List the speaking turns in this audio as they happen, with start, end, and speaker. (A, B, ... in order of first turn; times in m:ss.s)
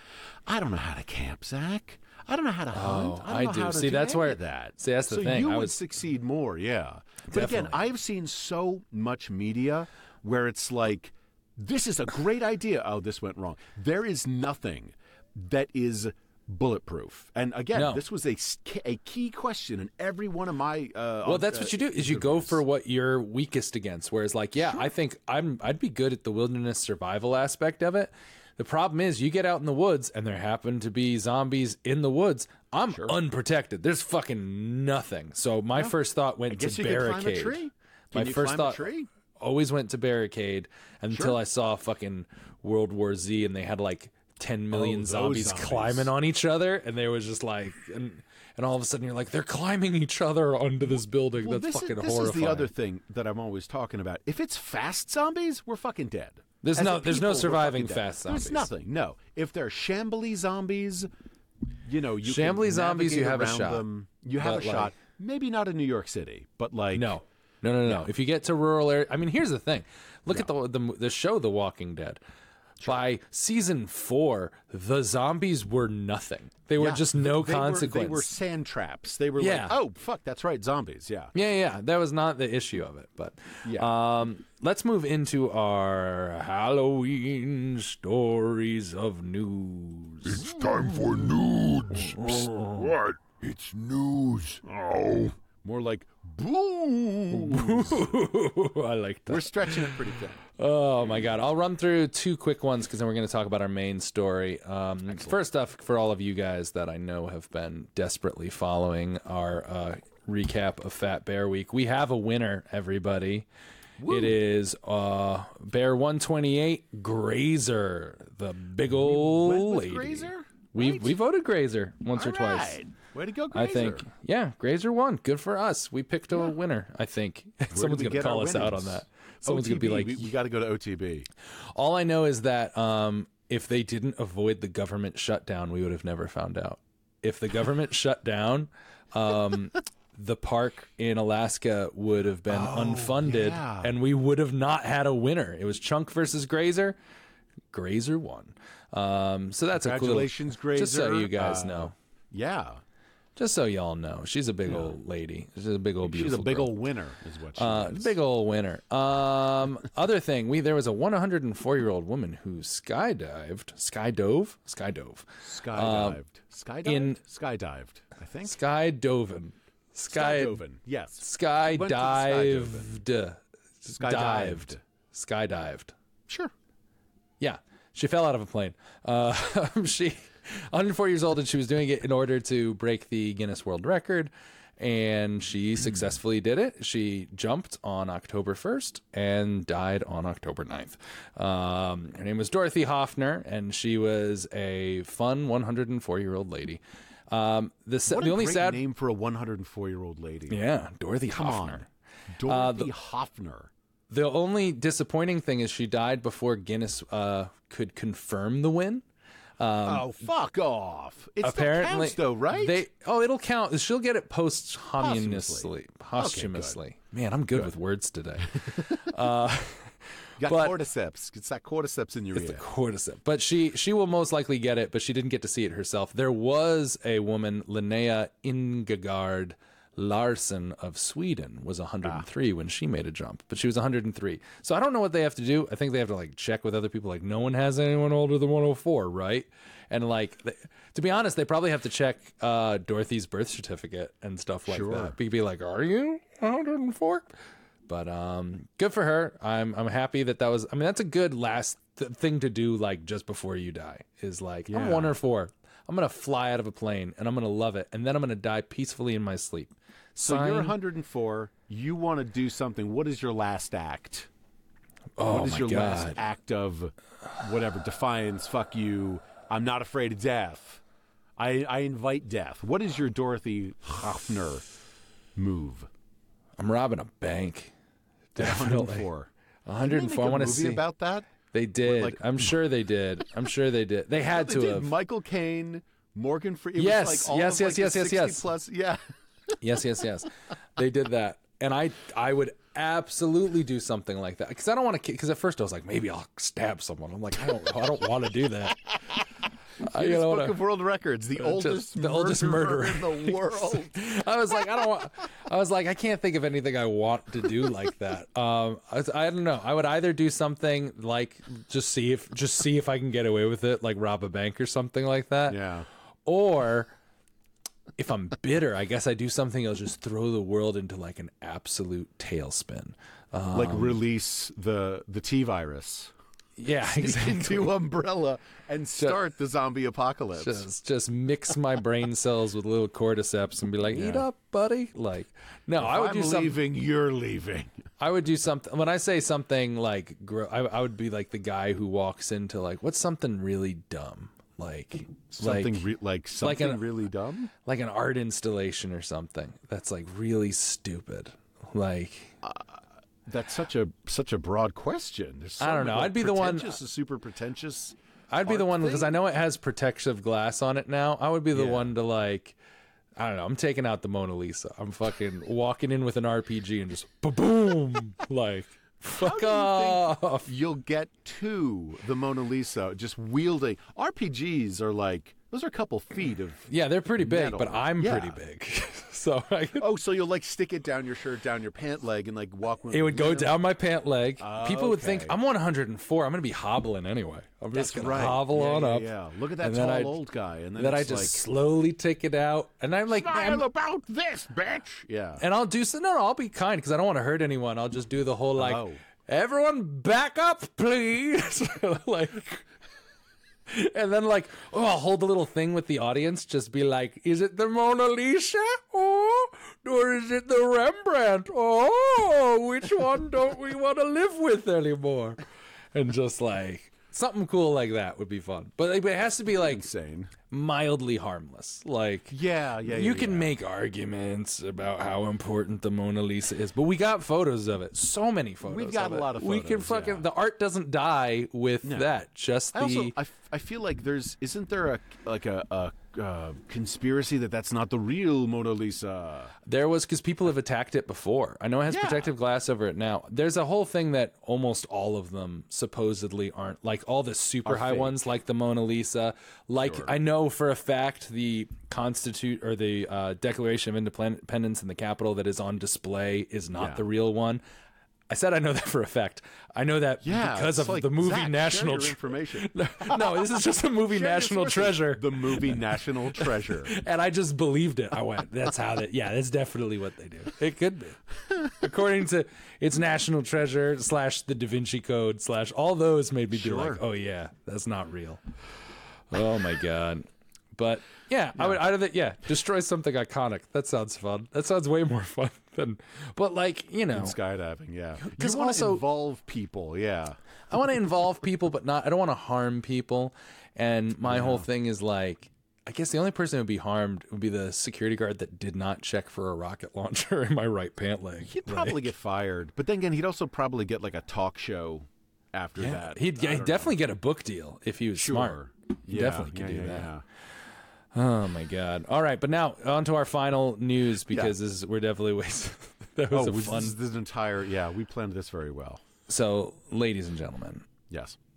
0:00.5-0:22.6 A
0:02.7-0:05.8 B
0:07.3-0:07.8 B
0:17.7-0:18.0 B
0:21.2-0:52.7 B
0:32.9-0:33.2 A
0:36.5-0:39.1 A
0:41.1-0:41.4 A
0:44.7-0:46.1 A
0:51.4-1:01.1 A
0:56.6-0:58.7 B
1:01.9-1:07.2 A
1:02.2-1:03.8 B
1:04.4-1:04.9 B
1:06.9-1:12.2 B
1:12.8-1:18.3 B
1:16.8-1:21.3 A
1:19.4-1:19.8 B
1:21.3-1:30.5 B
1:23.6-1:23.9 A
1:30.3-1:35.4 C
1:32.1-1:32.9 B
1:35.6-1:38.2 A
1:37.3-1:53.5 B
1:39.3-1:40.4 A
1:45.1-1:45.4 A
1:54.0-1:54.4 A
1:54.1-2:02.8 B
1:58.9-2:01.2 A
2:02.2-2:04.1 A
2:03.5-2:10.3 B
2:07.7-2:11.3 A
2:11.6-2:27.0 B
2:22.5-2:23.9 A
2:27.7-2:31.9 B
2:29.7-2:32.8 A
2:33.4-2:36.7 B
2:36.0-2:38.2 A
2:37.6-2:46.2 B
2:45.4-2:48.6 A
2:46.8-2:47.2 B
2:48.5-2:50.6 B
2:50.1-2:53.0 A
2:51.2-2:55.9 B
2:54.0-2:54.8 A
2:57.4-3:18.8 B
3:18.1-3:20.6 A
3:20.5-3:21.9 B
3:21.3-3:23.7 A
3:22.4-3:22.9 B
3:24.1-3:29.0 B
3:29.6-3:30.1 B
3:29.8-3:32.8 A
3:31.4-3:40.8 B
3:35.0-3:36.8 A
3:40.4-3:42.6 A
3:42.3-4:07.3 B
4:04.7-4:05.1 A
4:07.9-4:20.8 B
4:14.7-4:15.2 A
4:20.2-4:24.3 A
4:25.2-4:26.2 B
4:25.2-4:30.8 A
4:31.4-4:34.7 A
4:35.4-4:35.9 A
4:36.6-4:37.7 B
4:38.4-4:39.1 B
4:38.4-4:39.3 A
4:39.7-4:40.8 B
4:39.8-4:41.3 A
4:41.5-4:44.9 B
4:41.8-4:42.5 A
4:44.2-4:49.0 A
4:46.8-4:48.5 B
4:49.6-4:59.0 B
4:59.8-5:03.9 A
4:59.8-5:00.6 B
5:01.4-5:15.6 B
5:15.5-5:15.9 A
5:16.2-5:16.9 B
5:18.0-5:24.0 B
5:23.5-5:26.1 A
5:26.6-5:27.8 B
5:26.8-5:30.7 A
5:30.4-5:36.6 B
5:33.9-5:34.2 A
5:35.8-5:37.8 A
5:38.0-5:45.8 B
5:45.4-5:47.5 A
5:46.4-5:46.9 B
5:47.6-5:52.3 B
5:52.4-5:59.2 A
5:55.6-5:56.8 B
5:58.3-6:02.6 B
6:01.5-6:01.9 A
6:03.2-6:10.5 B
6:09.2-6:16.7 A
6:16.7-6:19.9 B
6:17.2-6:18.4 A
6:19.8-6:23.6 A
6:22.9-6:29.1 B
6:24.4-6:25.4 A
6:27.7-6:31.4 A
6:29.6-6:30.2 B
6:30.8-6:33.6 B
6:33.1-6:35.4 A
6:35.4-6:42.7 B
6:38.6-6:39.0 A
6:43.7-6:55.4 B
6:55.9-6:59.8 B
6:59.5-7:00.3 A
7:00.5-7:13.2 B
7:02.3-7:03.5 A
7:08.6-7:10.3 A
7:11.8-7:12.1 A
7:12.7-7:19.5 A
7:19.6-7:37.6 B
7:21.9-7:22.3 A
7:27.6-7:28.2 A
7:29.9-7:30.1 A
7:36.8-7:37.0 A
7:38.3-7:58.4 B
7:40.2-7:46.9 A
7:56.5-7:57.0 A
7:59.3-8:07.4 B
8:07.1-8:10.4 A
8:08.2-8:09.0 B
8:10.7-8:22.1 B
8:14.2-8:14.7 A
8:21.4-8:27.0 A
8:25.8-8:30.1 B
8:28.2-8:30.2 A
8:31.1-8:37.0 B
8:34.3-8:34.6 A
8:36.3-8:39.0 A
8:39.3-8:40.9 B
8:41.1-8:41.4 A